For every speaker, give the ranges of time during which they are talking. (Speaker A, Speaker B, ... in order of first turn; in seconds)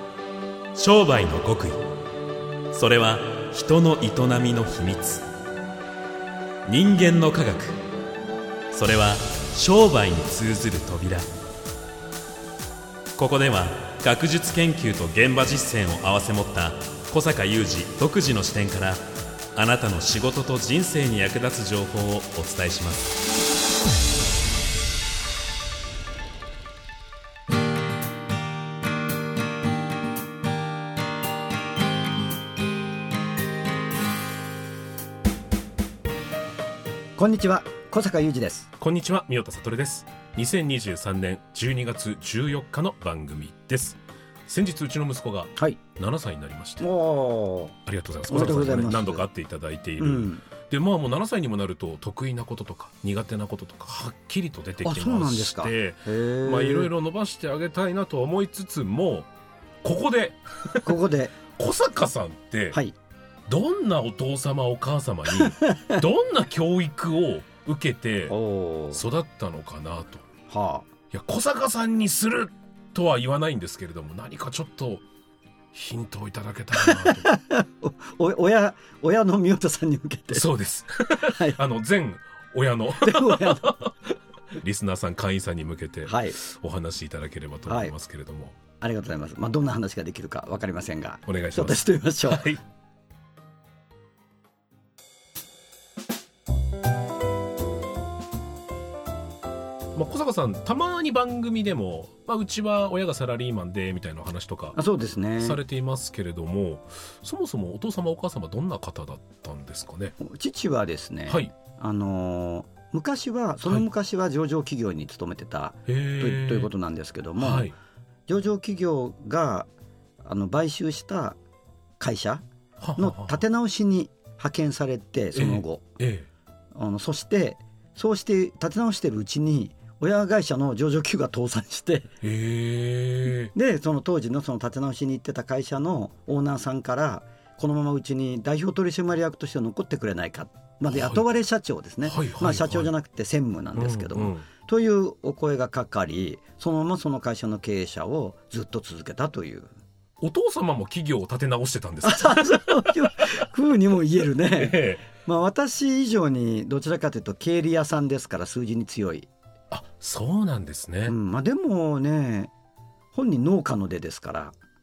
Speaker A: 0.7-1.8, 2.7-5.2, 6.7-7.8, 8.7-11.3, 13.2-19.0, 19.5-23.1
Speaker B: 37.1-38.7, 46.8-47.8, 48.3-49.2, 50.0-50.4, 54.8-56.9, 60.8-61.4, 65.3-66.0, 68.3-69.0, 70.5-70.9, 76.8-80.5, 81.2-81.6, 82.9-83.7, 86.0-86.4, 87.7-87.9, 88.8-92.5, 104.8-105.6, 110.2-117.7, 118.3-119.7, 120.2-121.4, 122.0-122.4, 123.0-125.8, 126.7-132.1, 133.5-149.7, 152.0-159.3, 161.1-162.5, 163.1-164.5
Speaker C: 38.8-46.9, 47.9-59.3, 59.8-62.8, 63.5-68.3, 68.9-70.2, 71.1-75.0, 75.7-77.3, 80.3-83.9, 84.5-88.5, 91.3-92.6, 99.9-104.8, 105.4-110.1, 115.9-116.7, 117.4-117.8, 122.8-123.4, 125.3-126.3, 132.2-133.5, 140.9-141.2, 142.0-142.9, 143.7-144.5, 150.2-153.3, 154.3-155.0, 159.7-161.1